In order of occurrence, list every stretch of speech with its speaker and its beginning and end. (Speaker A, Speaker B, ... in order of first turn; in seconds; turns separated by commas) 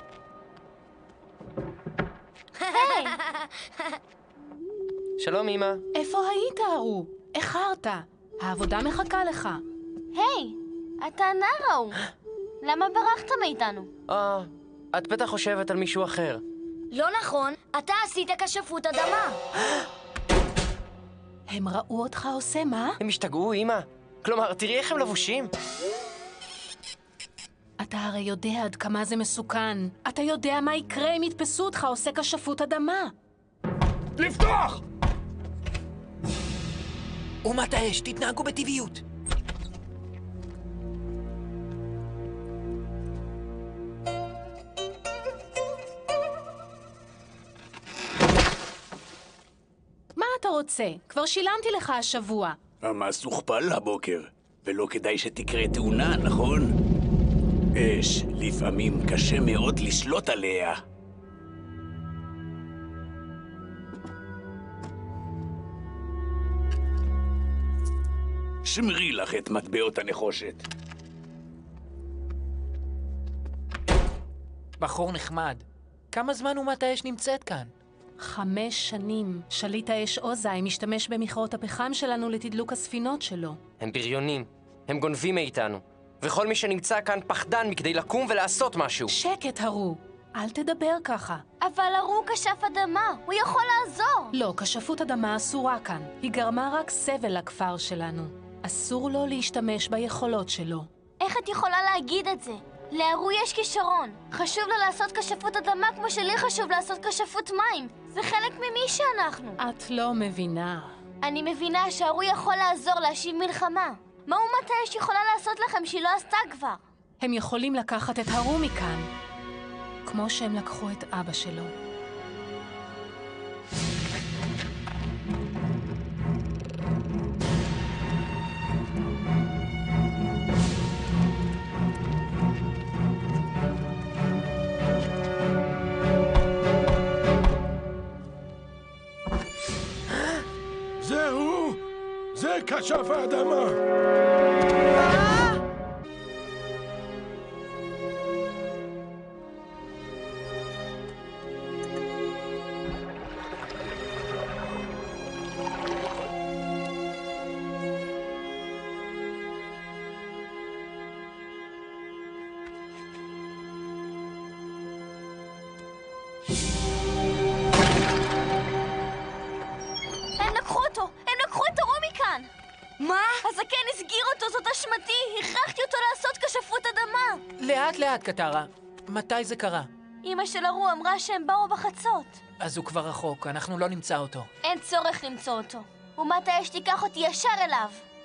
Speaker A: 2.6-4.0, Speaker B: 2.7-3.1, Speaker C: 5.2-5.8, Speaker D: 5.9-9.6, Speaker B: 10.1-12.1, Speaker B: 12.6-13.9, Speaker C: 14.1-16.4, Speaker A: 16.9-19.4, Speaker D: 21.5-23.0, Speaker C: 23.0-25.5, Speaker D: 27.8-33.1, Speaker E: 34.2-34.8, Speaker F: 37.4-39.0, Speaker D: 50.1-52.6, Speaker G: 52.8-56.7, Speaker G: 57.8-60.8, Speaker G: 68.6-70.6, Speaker F: 74.8-77.7, Speaker D: 78.2-83.6, Speaker C: 83.8-89.1, Speaker D: 89.1-91.4, Speaker B: 91.6-94.3, Speaker D: 94.3-100.9, Speaker B: 101.2-109.6, Speaker D: 109.6-110.9, Speaker B: 111.2-116.8, Speaker D: 117.2-119.1, Speaker D: 120.0-121.7, Speaker E: 141.0-141.8, Speaker E: 142.3-143.8, Speaker B: 170.4-172.5, Speaker A: 173.0-173.4, Speaker B: 173.4-177.4, Speaker F: 177.6-179.9, Speaker B: 180.2-182.4, Speaker F: 182.6-184.5, Speaker B: 184.6-188.0